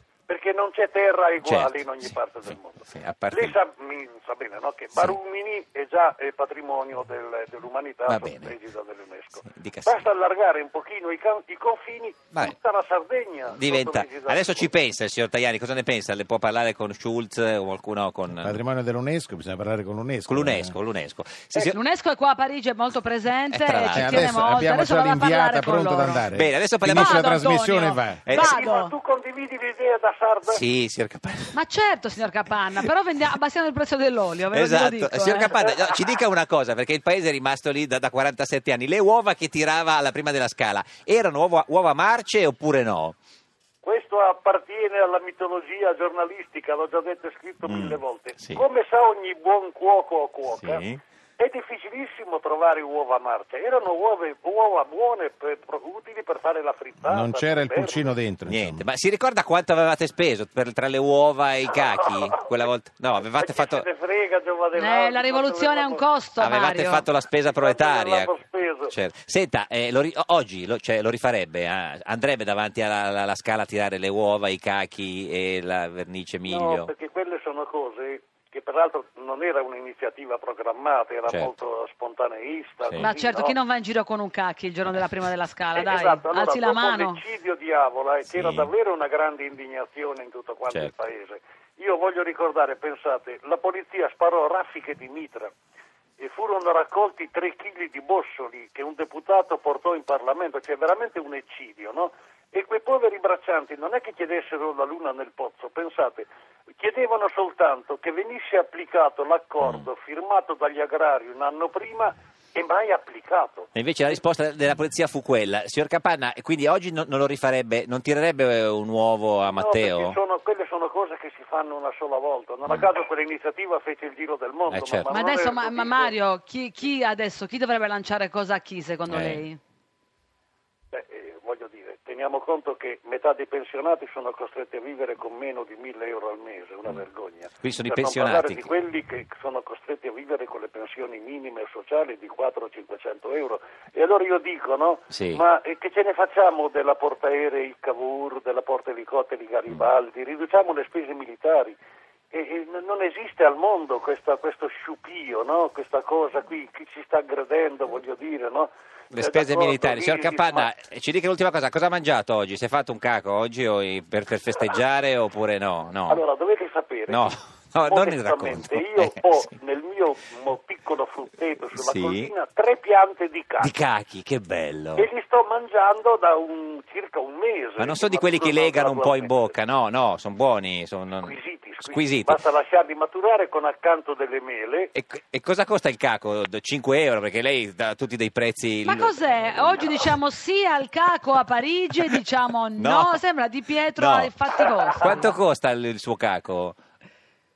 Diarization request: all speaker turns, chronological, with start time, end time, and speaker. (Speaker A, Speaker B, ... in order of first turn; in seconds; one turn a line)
Speaker A: 0.3-14.7
Speaker B: 1.4-2.1
Speaker B: 2.9-3.5
Speaker B: 8.1-8.5
Speaker B: 9.4-10.0
Speaker B: 13.6-18.6
Speaker C: 18.3-20.7
Speaker B: 20.3-21.8
Speaker D: 21.6-26.2
Speaker B: 23.5-24.4
Speaker C: 23.9-28.2
Speaker B: 26.3-27.3
Speaker D: 26.8-28.9
Speaker B: 28.2-28.6
Speaker A: 28.3-30.6
Speaker B: 30.5-31.6
Speaker D: 31.5-35.6
Speaker B: 34.5-43.1
Speaker A: 43.8-50.8
Speaker B: 47.6-48.6
Speaker B: 50.5-51.0
Speaker A: 51.4-58.0
Speaker C: 57.0-58.9
Speaker B: 58.5-63.8
Speaker A: 61.7-62.4
Speaker A: 63.2-66.0
Speaker D: 64.7-67.1
Speaker B: 66.4-68.3
Speaker A: 67.4-68.9
Speaker B: 68.9-76.9
Speaker A: 76.5-83.5
Speaker D: 83.0-87.2
Speaker A: 85.7-95.5
Speaker B: 88.3-88.7
Speaker A: 96.2-106.3
Speaker A: 106.8-113.7
Speaker B: 109.6-109.9
Speaker B: 113.7-120.2
Speaker A: 119.5-126.1
Speaker B: 124.7-125.1
Speaker D: 125.1-129.6
Speaker B: 129.1-129.4
Speaker A: 130.9-151.8
Speaker B: 137.6-138.7
Speaker B: 145.1-145.4
Speaker A: 152.3-160.7
Speaker B: 159.1-166.2
Speaker A: 166.1-173.7
Speaker B: 167.1-169.5
Speaker B: 171.7-172.3
Speaker B: 173.6-175.1
Speaker A: 174.9-179.6
Speaker B: 177.8-182.4
Speaker A: 181.2-184.9
Speaker B: 184.9-190.1
Speaker D: 188.8-195.3
Speaker B: 192.8-193.2
Speaker B: 194.0-194.3
Speaker B: 194.9-196.8